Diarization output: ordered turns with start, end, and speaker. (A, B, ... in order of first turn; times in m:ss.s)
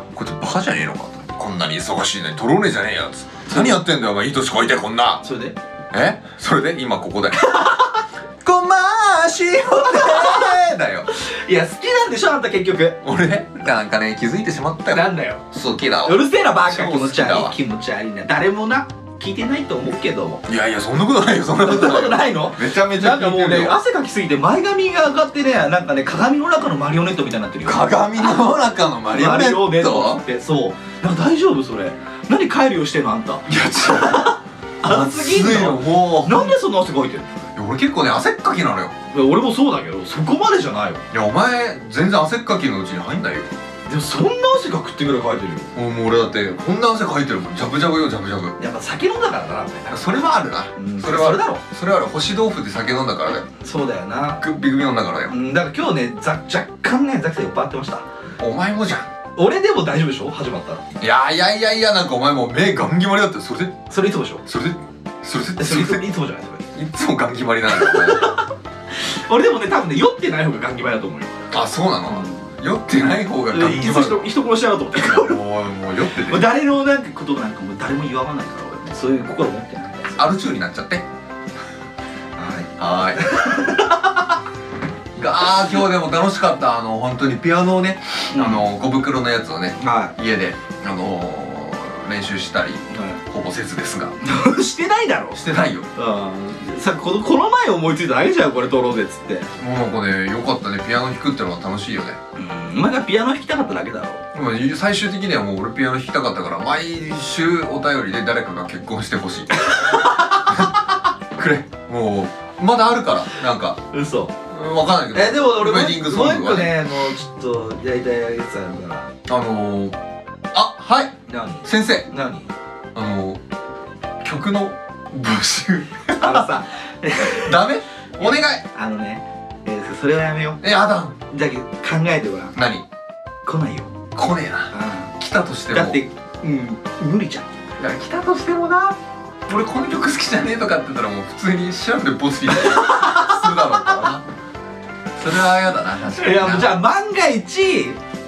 0:00.1-0:05.2 A
0:03.5-0:03.8 B
0:05.2-0:05.6 B
0:05.9-0:07.5 A
0:07.4-0:08.0 B
0:08.4-0:11.1 A
0:09.8-0:10.6 B
0:11.1-0:13.0 B
0:13.0-0:17.5 A
0:14.9-0:15.4 B
0:16.0-0:20.4 B
0:20.4-0:23.8 A
0:21.6-0:28.4 B
0:27.6-0:30.2 A
0:29.1-0:37.4 B
0:33.5-0:36.6 A
0:37.5-0:38.9 A
0:39.1-0:41.0 B
0:41.1-0:43.5 A
0:43.9-0:45.7 B
0:45.7-0:48.6 A
0:48.6-0:50.0 B
0:49.9-0:53.5 A
0:50.8-0:51.6 B
0:53.6-0:54.4 B
0:54.4-0:55.3 A
0:55.3-0:58.0 B
0:58.4-0:59.1 A
0:59.4-1:00.8 B
1:01.0-1:03.8 A
1:03.9-1:04.4 B
1:04.4-1:06.1 A
1:05.6-1:06.7 B
1:06.7-1:08.4 A
1:07.7-1:11.4 B
1:11.5-1:14.3 A
1:12.1-1:12.4 B
1:13.5-1:15.4 B
1:15.0-1:16.5 A
1:16.2-1:20.2 B
1:20.2-1:21.0 A
1:22.4-1:24.2 B
1:22.8-1:23.7 A
1:25.1-1:34.2 A
1:28.3-1:28.6 B
1:29.8-1:30.1 B
1:32.9-1:33.2 B
1:34.2-1:35.4 B
1:35.3-1:35.9 A
1:35.9-1:39.5 B
1:39.6-1:42.2 A
1:42.4-1:44.2 B
1:44.3-1:49.9 A
1:49.7-1:50.5 B
1:50.4-1:53.8 A
1:53.9-1:54.3 B
1:54.5-1:56.7 A
1:55.1-1:59.1 B
1:59.3-2:00.0 A
2:00.5-2:02.1 A
2:01.3-2:02.5 B
2:02.9-2:03.4 A
2:04.2-2:06.5 A
2:06.2-2:07.6 B
2:07.2-2:08.6 A
2:08.2-2:10.6 B
2:10.6-2:11.2 A
2:11.3-2:12.6 B
2:12.6-2:12.8 A
2:13.4-2:13.9 B
2:14.1-2:16.0 A
2:14.7-2:15.1 B
2:15.7-2:17.5 B
2:17.8-2:24.2 A
2:22.5-2:23.8 B
2:25.2-2:26.8 A
2:26.2-2:28.0 B